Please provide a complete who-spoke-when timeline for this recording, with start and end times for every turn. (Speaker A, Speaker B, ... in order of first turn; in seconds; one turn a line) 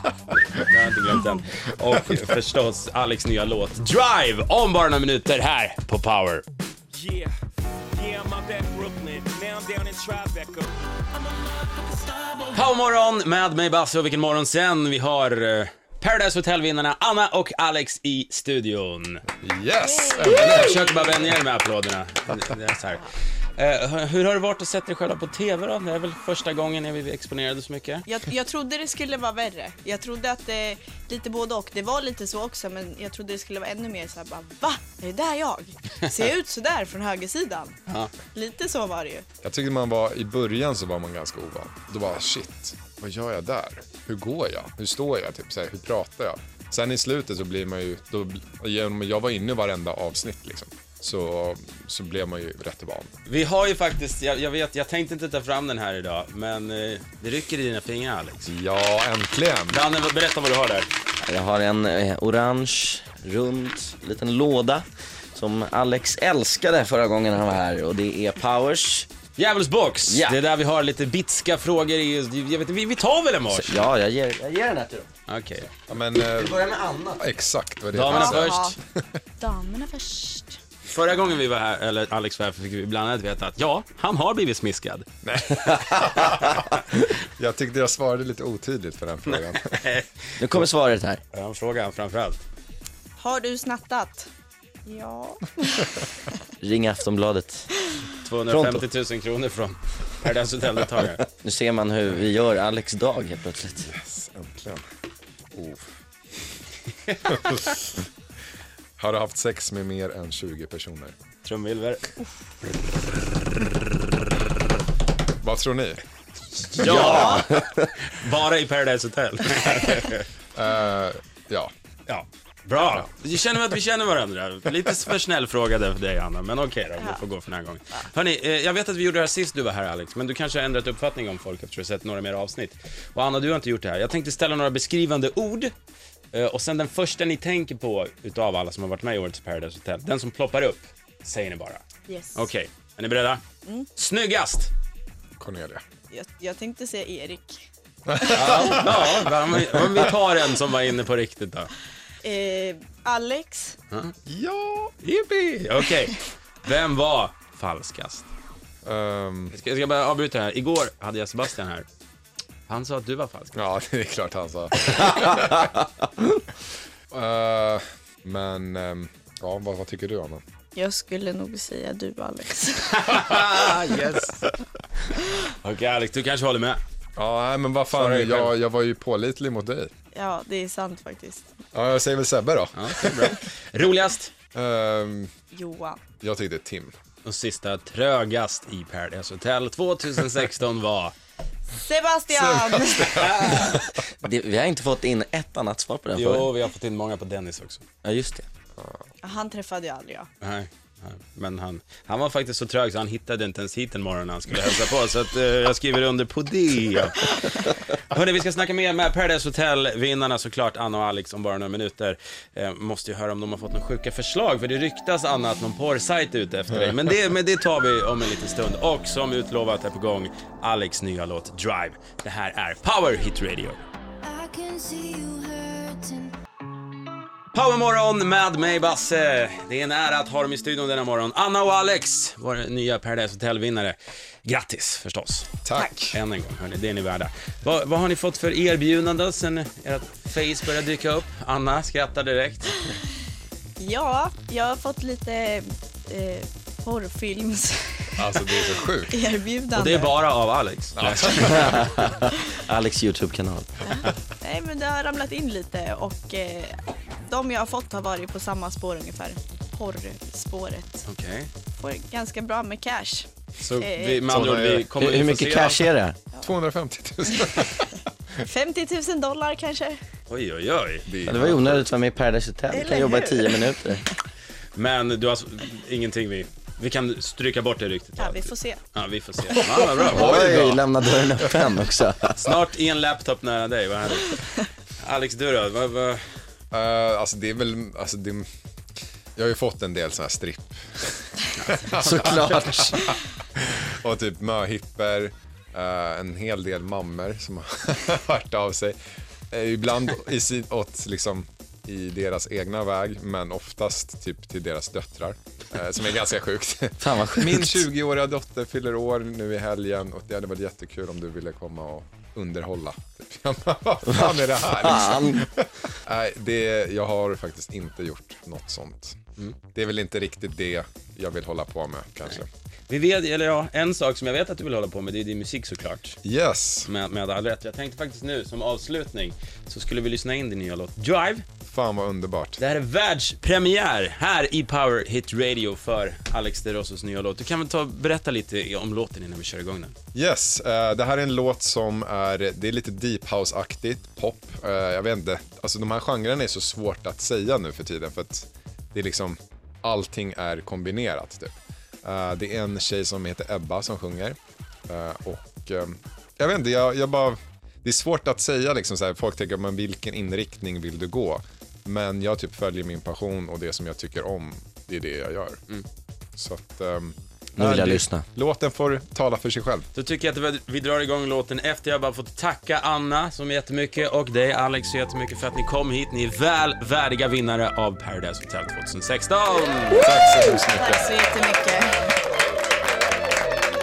Speaker A: 0.5-6.5
Speaker B: 7.0-7.3
Speaker B: 7.9-10.7
Speaker A: 12.5-19.2
Speaker C: 19.4-20.9
Speaker A: 20.2-28.1
Speaker D: 28.1-37.7
Speaker A: 37.9-38.1
Speaker D: 38.3-39.2
Speaker C: 39.4-53.1
Speaker A: 53.3-58.5
Speaker C: 58.5-59.8
Speaker A: 59.7-60.9
Speaker E: 61.2-69.1
Speaker A: 69.4-73.9
Speaker E: 70.1-70.4
Speaker E: 73.5-75.1
Speaker A: 75.3-75.7
Speaker C: 75.9-76.6
Speaker E: 76.1-77.2
Speaker C: 77.2-79.0
Speaker A: 77.9-78.8
Speaker D: 78.1-78.8
Speaker D: 79.4-80.6
Speaker A: 80.9-85.1
Speaker C: 85.2-86.8
Speaker C: 87.4-89.8
Speaker A: 89.3-90.7
Speaker E: 90.4-91.2
Speaker A: 91.3-92.4
Speaker D: 93.2-94.3
Speaker D: 94.9-96.1
Speaker E: 96.6-97.7
Speaker A: 98.2-101.2
Speaker E: 98.5-98.8
Speaker E: 101.4-103.9
Speaker C: 103.9-104.8
Speaker C: 105.5-106.0
Speaker C: 107.2-107.9
Speaker C: 109.0-111.2
Speaker A: 111.4-112.2
Speaker A: 113.4-114.4
Speaker C: 115.4-116.0
Speaker A: 116.7-120.3
Speaker C: 116.8-117.4
Speaker E: 116.8-117.9
Speaker D: 117.0-117.4
Speaker C: 120.5-121.7
Speaker A: 122.1-135.7
Speaker A: 136.3-141.8
Speaker D: 142.1-142.4
Speaker A: 142.3-143.4
Speaker A: 144.0-144.7
Speaker C: 145.4-145.8
Speaker D: 146.1-147.7
Speaker C: 148.1-150.1
Speaker A: 148.3-151.7
Speaker D: 152.2-153.8
Speaker C: 154.3-154.9
Speaker A: 155.0-158.3
Speaker C: 158.8-159.5
Speaker A: 159.5-161.9
Speaker A: 162.7-163.6
Speaker C: 163.6-165.7
Speaker C: 167.1-170.4
Speaker D: 170.8-173.2
Speaker A: 172.9-174.5
Speaker A: 175.1-176.8
Speaker C: 177.2-179.9
Speaker A: 177.9-178.5
Speaker D: 180.1-181.5
Speaker C: 181.7-183.4
Speaker A: 182.8-184.3
Speaker C: 184.5-185.3
Speaker D: 185.5-186.0
Speaker C: 186.2-186.9
Speaker A: 187.2-191.1
Speaker D: 191.7-193.2
Speaker C: 192.3-194.0
Speaker A: 193.2-193.9
Speaker E: 194.2-196.5
Speaker A: 196.2-197.8
Speaker E: 198.0-198.5
Speaker D: 199.2-200.3
Speaker A: 200.4-223.8
Speaker F: 224.2-226.4
Speaker A: 227.5-235.5
Speaker C: 235.7-236.2
Speaker A: 236.1-242.9
Speaker D: 243.8-250.1
Speaker C: 248.2-249.2
Speaker A: 249.7-252.1
Speaker C: 251.0-252.1
Speaker E: 251.5-253.9
Speaker D: 253.9-261.1
Speaker A: 261.1-261.5
Speaker D: 261.8-263.3
Speaker A: 263.6-265.9
Speaker D: 263.8-264.3
Speaker C: 264.3-264.9
Speaker E: 264.9-266.2
Speaker C: 266.4-268.1
Speaker D: 268.4-270.0
Speaker A: 270.3-271.1
Speaker C: 271.1-271.9
Speaker E: 271.3-274.0
Speaker D: 272.7-273.8
Speaker A: 274.8-280.4
Speaker D: 278.2-278.8
Speaker C: 279.5-281.8
Speaker E: 280.1-282.4
Speaker A: 282.3-286.2
Speaker C: 286.7-288.4
Speaker C: 289.4-299.0
Speaker A: 291.6-292.9
Speaker E: 292.0-293.0
Speaker C: 299.5-319.2
Speaker E: 307.0-307.9
Speaker E: 314.1-315.4
Speaker C: 319.8-322.5
Speaker A: 322.9-326.2
Speaker C: 326.2-326.9
Speaker A: 326.9-331.4
Speaker C: 331.7-332.6
Speaker A: 332.6-339.9
Speaker C: 340.1-354.4
Speaker C: 354.9-365.6
Speaker C: 366.4-369.9
Speaker E: 367.6-368.2
Speaker A: 369.9-380.1
Speaker C: 379.9-381.1
Speaker D: 380.6-381.9